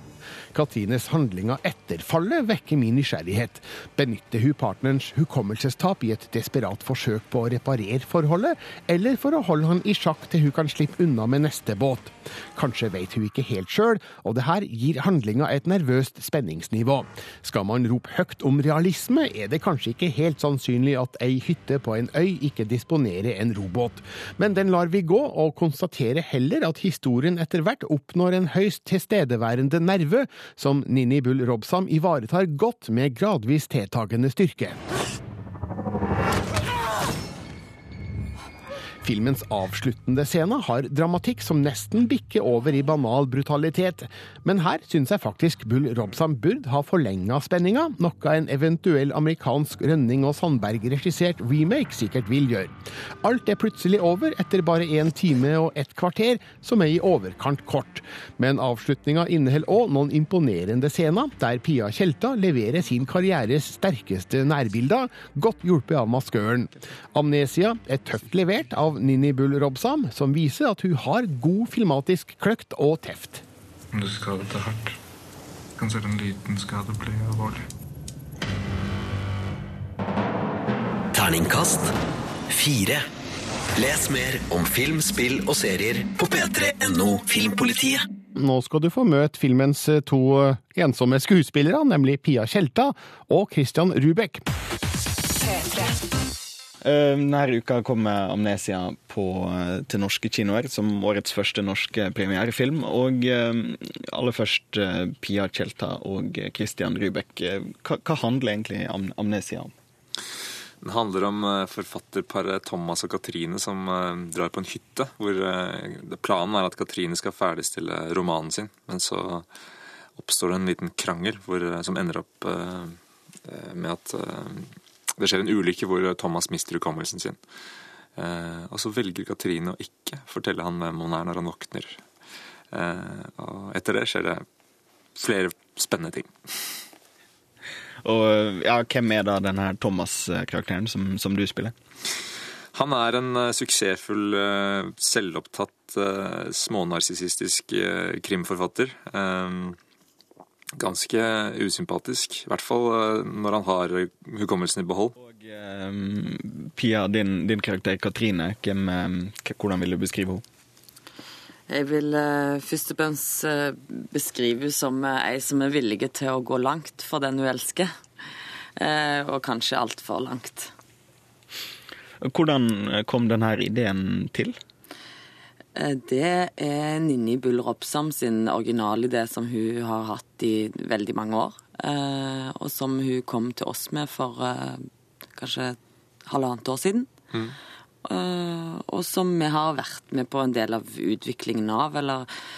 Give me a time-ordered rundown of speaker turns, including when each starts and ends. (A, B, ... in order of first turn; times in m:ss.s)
0:00.5-0:34.8 A
0:39.0-1:13.4 A
1:13.9-1:15.0 B
1:15.8-1:17.6 B
1:21.1-1:21.9 C
1:22.5-1:23.0 C
1:23.7-1:28.0 C
1:28.3-1:34.4 A
1:36.8-1:49.7 D
1:50.8-1:59.5 E
2:00.2-2:07.4 E
2:08.2-2:12.0 E
2:12.7-2:14.4 E
2:15.1-2:16.8 E
2:18.0-2:21.7 D
2:22.7-2:29.8 E
2:30.8-2:35.1 E
2:35.2-2:40.4 D
2:41.7-2:47.9 F
2:48.8-2:50.7 F
2:52.2-2:54.6 D
2:55.7-3:07.1 F
3:08.0-3:12.3 F